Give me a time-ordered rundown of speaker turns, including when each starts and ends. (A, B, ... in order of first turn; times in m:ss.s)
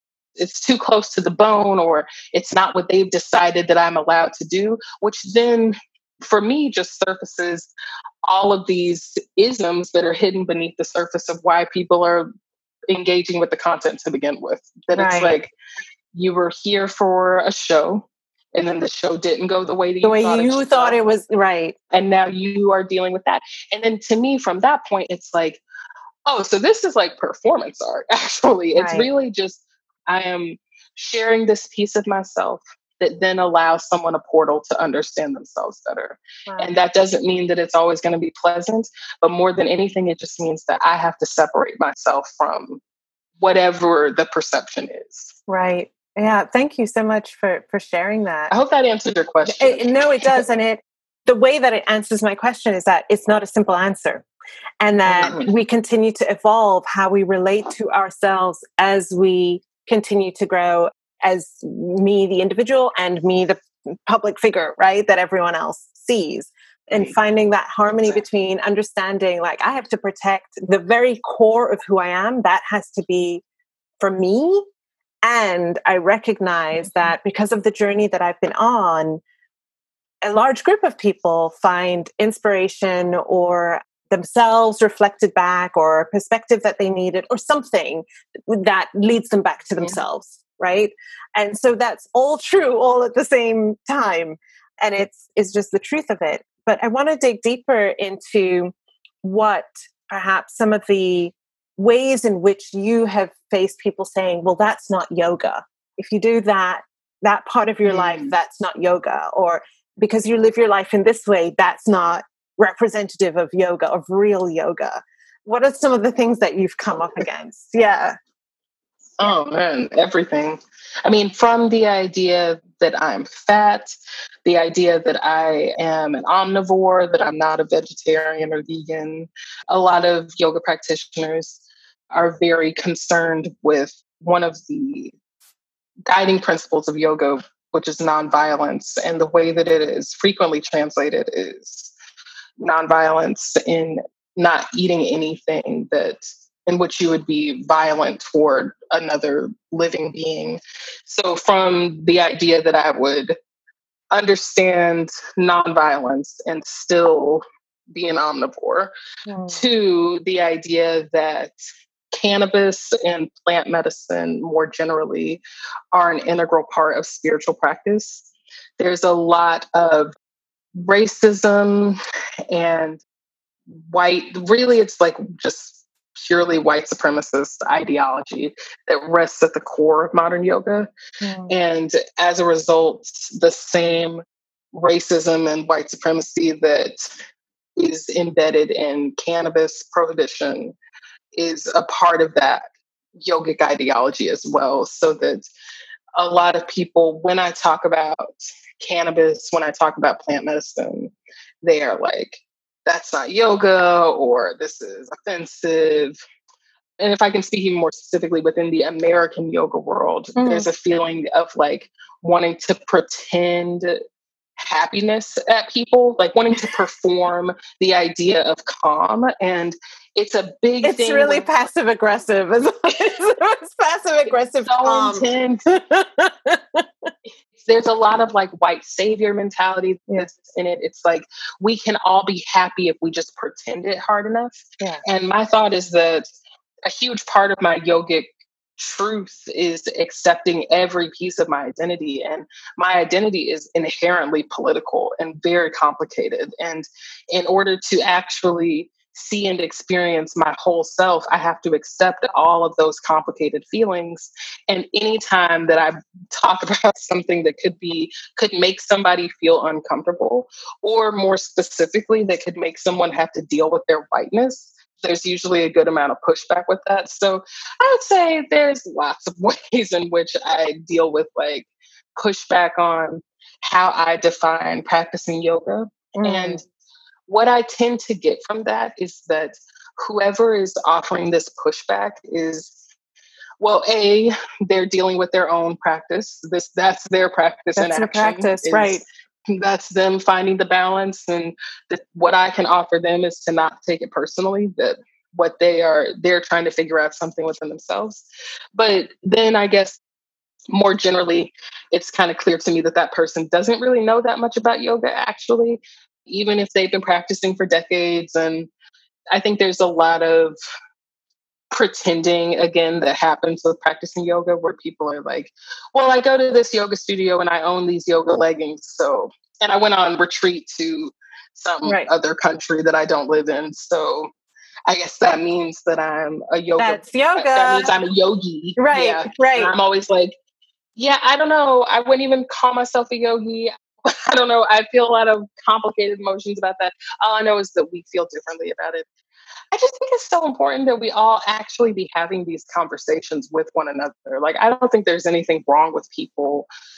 0:00.4-0:07.7 A
0:08.2-0:12.3 A
0:12.9-0:15.5 A
0:14.9-0:15.4 B
0:16.1-0:21.0 A
0:20.0-0:21.7 B
0:21.9-0:25.6 A
0:26.2-0:42.8 A
0:28.7-0:29.1 B
0:36.5-0:36.7 B
0:43.4-0:45.4 A
0:45.5-0:48.5 B
0:48.5-0:50.4 A
0:49.4-0:54.2 B
0:54.8-1:13.4 B
0:55.1-0:55.5 A
1:06.9-1:07.1 A
1:08.0-1:08.2 A
1:14.0-1:14.6 B
1:15.2-1:19.2 B
1:16.8-1:17.1 A
1:20.2-1:58.1 B
1:47.8-1:48.3 A
1:59.2-2:15.1 A
2:16.1-2:21.9 A
2:22.6-2:33.4 A
2:34.1-2:38.9 A
2:39.3-2:39.6 B
2:39.5-2:45.4 A
2:45.9-2:50.1 A
2:50.8-2:52.0 A
2:52.5-2:53.0 A
2:53.9-3:00.9 A
3:01.2-3:01.5 B
3:01.5-3:04.2 A
3:04.7-3:07.1 A
3:07.8-3:10.7 A
3:11.3-3:12.6 A
3:13.2-3:15.5 A
3:16.2-3:26.2 A
3:27.0-3:34.0 A
3:30.4-3:30.7 B
3:34.6-3:41.5 A
3:40.8-3:47.1 B
3:44.6-3:45.6 A
3:47.6-3:56.2 A
3:56.8-4:36.6 A
4:36.2-4:36.6 B
4:37.3-4:42.8 A
4:43.6-5:00.0 A
4:47.8-4:49.0 B
5:00.7-5:08.7 A
5:09.3-5:10.6 A
5:11.7-5:24.3 A
5:21.8-5:22.1 B
5:24.9-5:30.4 A
5:26.8-5:27.9 B
5:28.8-5:29.7 B
5:31.0-5:39.1 A
5:39.7-5:46.7 A